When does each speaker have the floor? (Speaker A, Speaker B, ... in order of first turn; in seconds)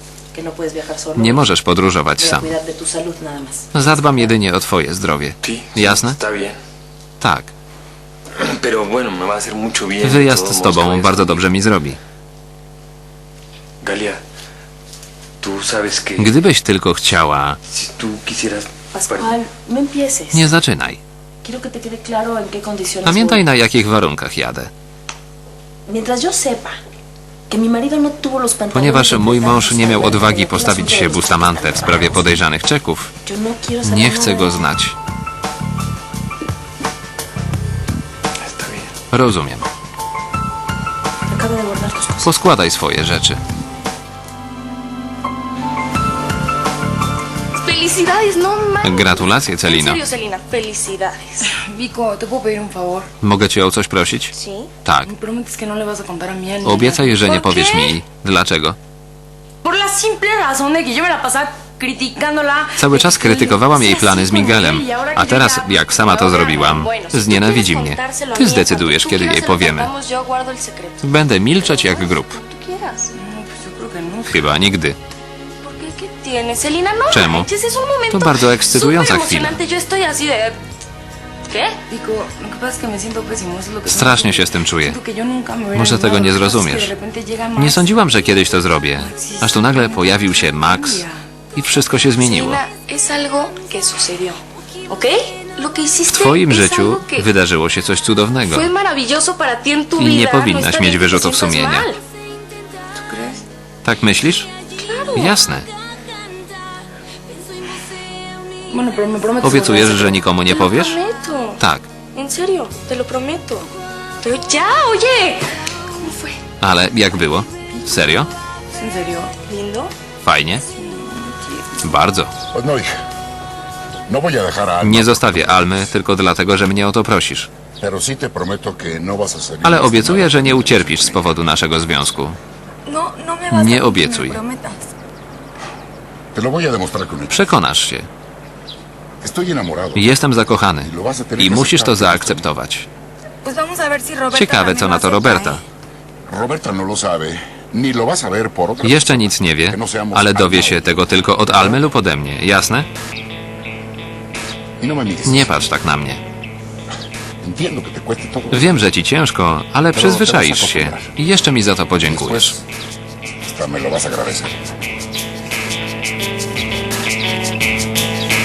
Speaker A: 0.3-1.5, 2.2-4.3, 18.9-20.5, 21.4-23.5, 25.9-26.8, 27.5-32.3, 33.2-34.6, 41.3-42.3
Speaker B: 1.2-2.5, 3.7-6.2, 7.2-7.5, 10.0-12.0, 16.2-17.6, 20.3-21.0, 23.0-24.7, 28.7-33.1, 33.8-35.0, 39.1-39.7, 42.2-43.4, 48.8-50.0, 53.2-54.3, 54.8-55.1, 56.6-58.8, 62.8-69.9, 71.0-72.4, 74.3-75.0, 77.1-77.5, 78.1-79.6, 83.9-85.0, 85.7-86.9, 87.6-92.6, 96.1-98.7, 100.0-101.9, 103.8-104.5, 105.2-105.7, 109.4-111.0, 111.6-111.9, 116.6-118.3, 120.2-120.6, 121.8-122.3, 124.8-127.5, 129.6-132.4, 133.5-134.4, 137.3-138.1, 139.9-142.9, 144.3-145.6, 148.8-152.9, 155.2-156.2, 158.5-162.6
Speaker C: 5.4-6.6, 8.4-11.4, 13.8-14.2, 15.4-16.4, 17.7-19.4, 38.4-38.9
Speaker D: 47.5-51.5, 54.3-54.7, 65.6-71.1, 71.6-73.2, 75.6-80.6, 81.5-81.8, 92.2-97.3, 98.5-102.0, 104.8-105.4, 110.5-111.6, 112.1-113.7, 114.2-116.4, 119.4-119.9
Speaker E: 51.7-53.1, 55.1-57.9, 59.6-65.8, 73.3-74.4, 81.9-87.9, 89.0-91.1, 103.0-103.4, 108.7-110.2, 118.8-119.3, 120.7-121.6, 132.9-134.9, 143.4-145.6
Speaker F: 122.5-123.0, 124.1-125.8, 127.8-131.3, 136.3-137.5, 139.2-140.2, 140.8-142.5, 146.3-151.8, 154.8-155.6, 157.4-158.9, 159.9-161.2, 162.0-162.6, 163.4-164.6